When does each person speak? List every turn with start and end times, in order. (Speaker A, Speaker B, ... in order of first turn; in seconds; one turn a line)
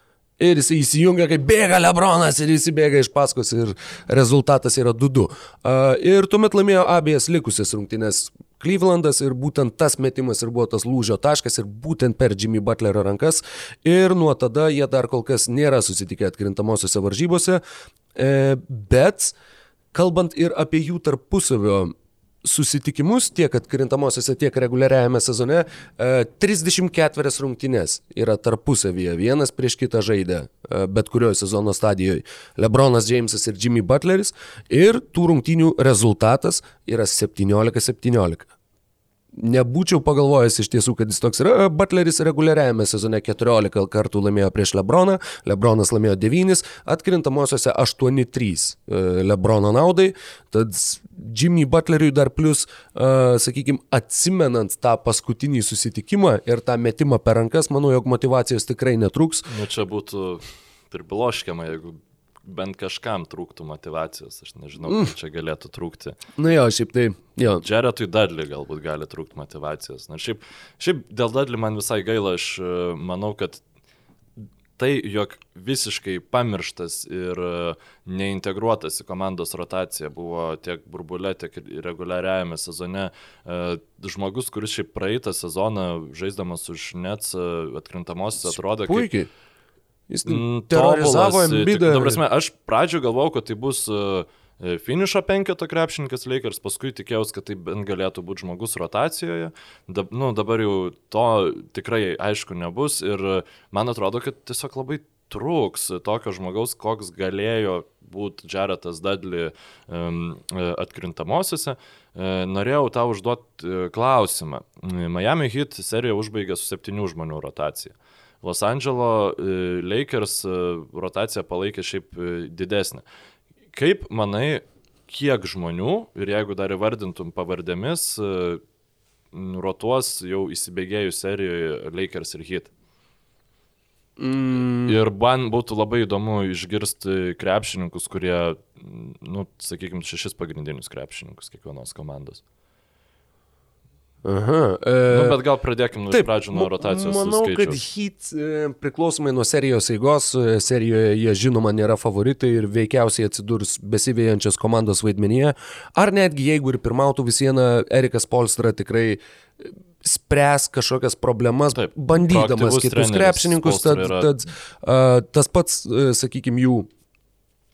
Speaker A: 0.4-17.6
Speaker A: 18.1-19.3
Speaker A: 19.9-38.5
Speaker A: 39.3-59.5
Speaker B: 59.5-66.2
Speaker A: 64.9-65.1
Speaker A: 66.4-67.6
Speaker B: 67.6-73.6
Speaker B: 74.8-89.1
Speaker A: 88.9-89.3
Speaker A: 90.1-92.2
Speaker B: 90.2-123.0
Speaker B: 123.7-128.6
Speaker B: 129.3-132.7
Speaker A: 134.2-135.0
Speaker B: 134.8-142.4
Speaker A: 144.2-145.4
Speaker B: 145.1-147.8
Speaker A: 146.1-166.9
Speaker B: 161.8-164.3